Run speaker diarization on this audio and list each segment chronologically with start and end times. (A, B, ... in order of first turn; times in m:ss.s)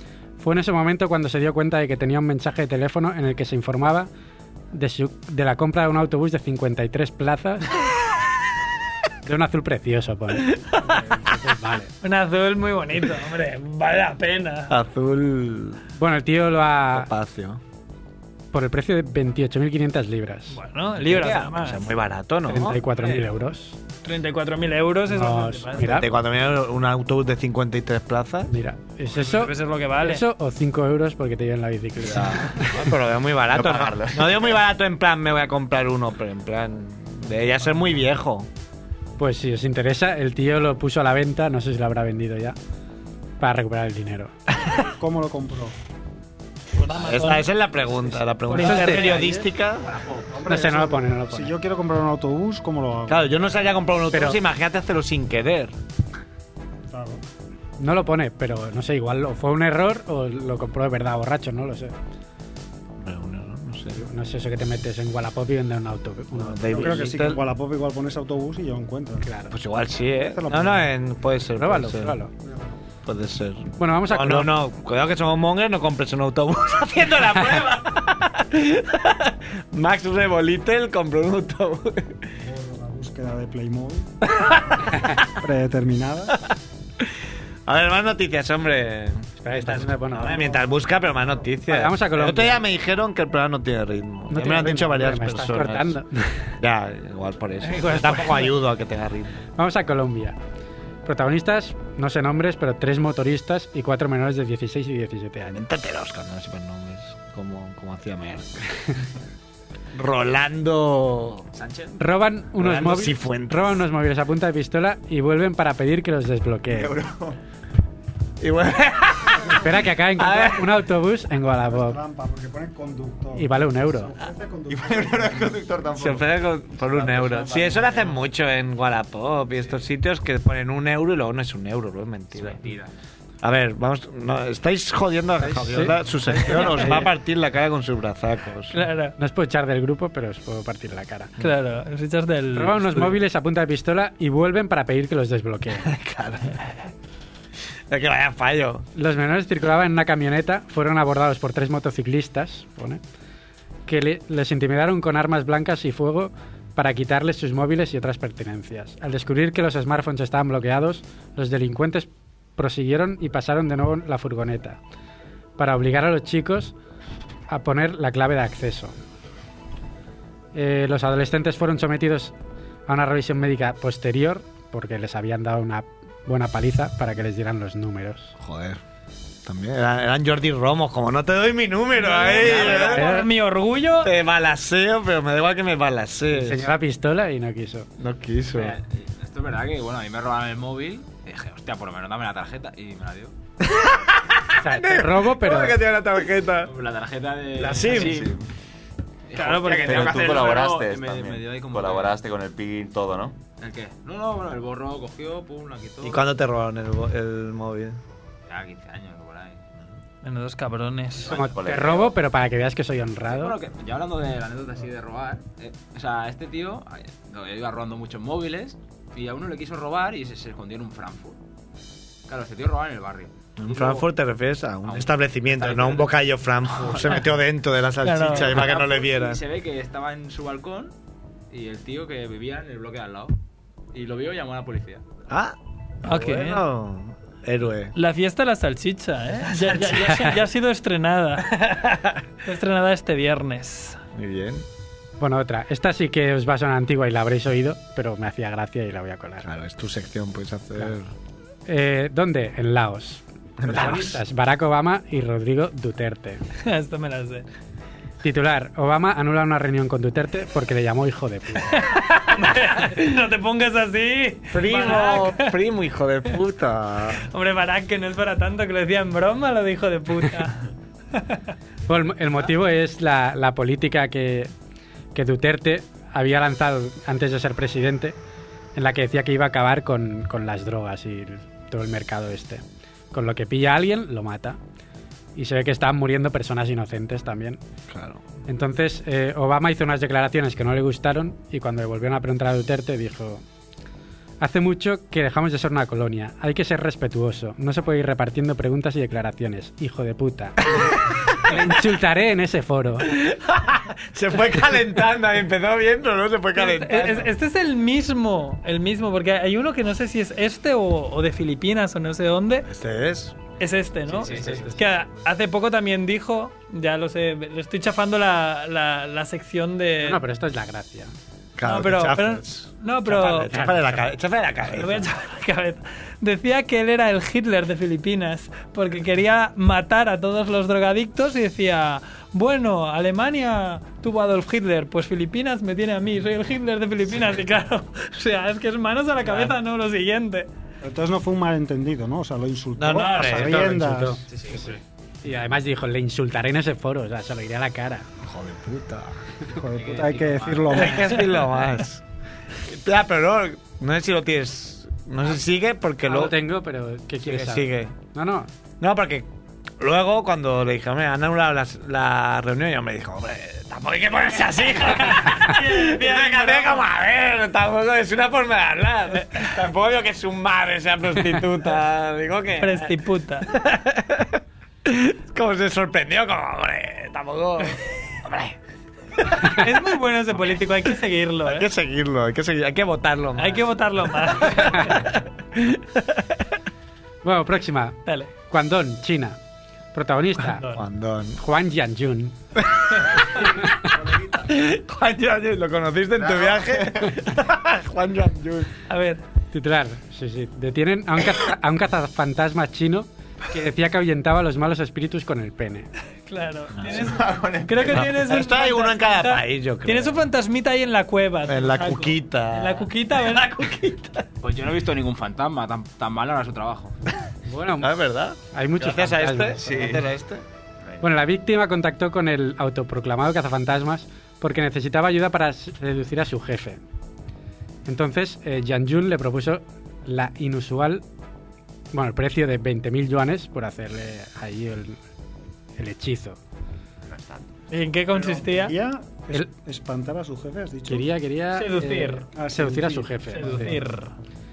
0:00.4-0:04.1 A
0:04.7-0:07.8 A
0:09.2-0:11.9 A
0:12.0-0:14.7 B
0:14.7-0:15.8 C
0:16.0-0:17.1 A
0:16.9-0:17.6 C
0:18.5-0:20.6 A
0:20.5-0:21.9 B
0:21.3-0:22.8 C
0:22.4-0:23.8 A
0:24.0-0:25.9 B
0:25.1-0:26.1 A
0:25.8-0:28.5 C
0:28.5-0:32.9 A
0:29.1-0:30.2 B
0:32.0-0:38.5 C
0:33.5-0:34.6 D
0:39.2-0:42.6 A
0:43.4-0:44.3 A
0:44.8-0:45.8 E
0:46.8-0:47.5 B
0:47.0-0:49.9 C
0:48.5-0:49.4 B
0:48.5-0:49.3 A
0:49.8-0:50.4 F
0:50.3-0:53.5 E
0:50.4-0:51.5 A
0:53.1-0:55.8 C
0:54.1-0:54.4 A
0:56.9-0:57.2 E
0:57.8-1:01.9 A
1:03.0-1:04.0 C
1:04.0-1:07.1 A
1:06.3-1:07.4 C
1:06.7-1:09.3 E
1:09.2-1:09.6 A
1:09.5-1:12.2 C
1:10.1-1:10.9 E
1:11.6-1:12.3 A
1:12.4-1:12.7 E
1:13.0-1:22.2 C
1:13.8-1:14.6 A
1:22.4-1:24.1 E
1:24.4-1:24.9 C
1:25.3-1:26.4 E
1:27.7-1:36.0 C
1:29.4-1:30.6 A
1:31.7-1:32.6 A
1:34.3-1:36.6 A
1:36.6-1:39.4 C
1:37.6-1:38.5 B
1:39.6-1:40.4 A
1:41.0-1:45.6 A
1:45.5-1:48.8 C
1:49.9-1:51.5 C
1:51.5-1:52.0 F
1:52.0-1:57.0 A
1:52.6-1:53.8 C
1:56.7-1:57.4 D
1:58.4-2:00.8 C
1:59.5-2:02.0 A
2:01.5-2:05.7 E
2:03.4-2:04.1 A
2:04.7-2:06.3 D
2:06.0-2:12.7 C
2:06.9-2:07.8 D
2:07.2-2:08.3 F
2:09.6-2:09.8 F
2:12.3-2:12.9 F
2:13.4-2:18.7 C
2:15.4-2:17.1 A
2:18.7-2:19.1 B
2:19.2-2:21.3 A
2:21.4-2:23.2 B
2:22.5-2:25.9 A
2:25.8-2:26.9 C
2:27.9-2:28.9 C
2:29.0-2:33.0 A
2:33.9-2:44.8 A
2:45.6-2:46.7 A
2:47.5-2:49.0 A
2:50.5-2:52.3 A
2:52.9-2:58.3 A
2:58.4-2:58.8 C
2:59.4-3:03.1 C
3:02.0-3:04.1 B
3:02.4-3:03.0 F
3:02.5-3:03.3 A
3:04.0-3:06.7 C
3:06.3-3:07.9 A
3:08.0-3:08.8 C
3:08.5-3:13.3 F
3:13.7-3:16.7 C
3:14.6-3:15.8 A
3:16.6-3:18.4 F
3:17.6-3:18.4 C
3:17.9-3:18.2 D
3:19.3-3:22.2 F
3:19.4-3:20.2 B
3:19.9-3:23.4 D
3:23.6-3:26.2 F
3:26.0-3:28.0 C
3:28.5-3:29.6 F
3:30.2-3:31.4 B
3:31.3-3:32.1 F
3:31.3-3:33.6 A
3:31.4-3:32.1 D
3:33.3-3:41.4 F
3:42.3-3:44.1 F
3:43.6-3:49.4 C
3:44.8-3:46.2 F
3:46.8-3:47.2 F
3:48.0-3:48.6 B
3:48.4-3:50.9 F
3:51.5-3:53.4 F
3:53.9-3:55.0 F
3:55.3-3:57.9 C
3:56.0-3:56.6 B
3:57.9-4:01.6 B
3:59.5-4:00.1 C
4:00.1-4:00.4 A
4:01.5-4:02.2 C
4:02.4-4:04.0 B
4:04.1-4:04.6 C
4:05.2-4:09.5 A
4:09.4-4:11.1 C
4:11.7-4:16.4 A
4:13.6-4:14.2 C
4:16.6-4:17.4 B
4:18.2-4:21.8 A
4:21.7-4:25.5 B
4:24.5-4:27.3 C
4:27.3-4:31.4 B
4:31.9-4:34.5 A
4:35.1-4:38.2 A
4:38.7-4:44.6 A
4:45.4-4:47.6 A
4:47.9-4:48.3 C
4:48.5-4:53.4 A
4:54.4-5:03.1 A
5:03.0-5:07.3 C
5:06.6-5:12.7 B
5:12.7-5:13.4 C
5:13.6-5:20.2 B
5:14.2-5:14.7 F
5:14.2-5:14.6 C
5:14.2-5:14.7 A
5:20.0-5:21.1 A
5:21.6-5:25.1 C
5:21.6-5:23.5 B
5:23.5-5:23.9 A
5:24.7-5:40.5 B
5:40.8-5:44.2 E
5:42.8-5:43.8 C
5:43.2-5:48.0 A
5:44.3-5:44.8 F
5:48.2-5:49.2 C
5:49.5-5:51.2 E
5:49.6-5:51.2 F
5:50.7-5:52.0 C
5:52.6-5:56.4 C
5:56.0-5:58.5 A
5:57.2-5:58.0 C
5:58.8-5:59.3 C
5:59.8-6:13.0 C
6:04.9-6:06.8 B
6:12.6-6:13.5 B
6:13.5-6:18.6 C
6:19.2-6:19.5 C
6:19.5-6:21.7 B
6:21.4-6:23.6 C
6:23.4-6:25.1 B
6:24.8-6:25.0 A
6:25.6-6:26.2 C
6:27.2-6:29.4 A
6:28.0-6:28.3 B
6:29.9-6:30.7 A
6:30.4-6:30.8 B
6:30.7-6:31.4 C
6:31.4-6:32.4 A
6:33.0-6:33.6 C
6:34.2-6:38.7 C
6:38.9-6:39.2 B
6:39.5-6:45.9 A
6:46.3-6:53.7 B
6:46.8-6:47.1 C
6:47.2-6:48.1 F
6:47.8-6:50.2 C
6:51.5-6:54.3 C
6:54.4-6:57.0 F
6:57.5-6:57.9 A
6:57.8-7:00.4 C
6:58.5-6:59.7 A
6:59.7-7:00.0 F
7:01.0-7:06.8 A
7:07.9-7:11.0 A
7:11.9-7:15.0 A
7:15.8-7:16.4 A
7:17.1-7:17.4 D
7:17.7-7:18.7 B
7:18.1-7:21.1 E
7:20.9-7:23.8 A
7:21.5-7:22.2 B
7:22.4-7:23.8 E
7:23.3-7:24.1 B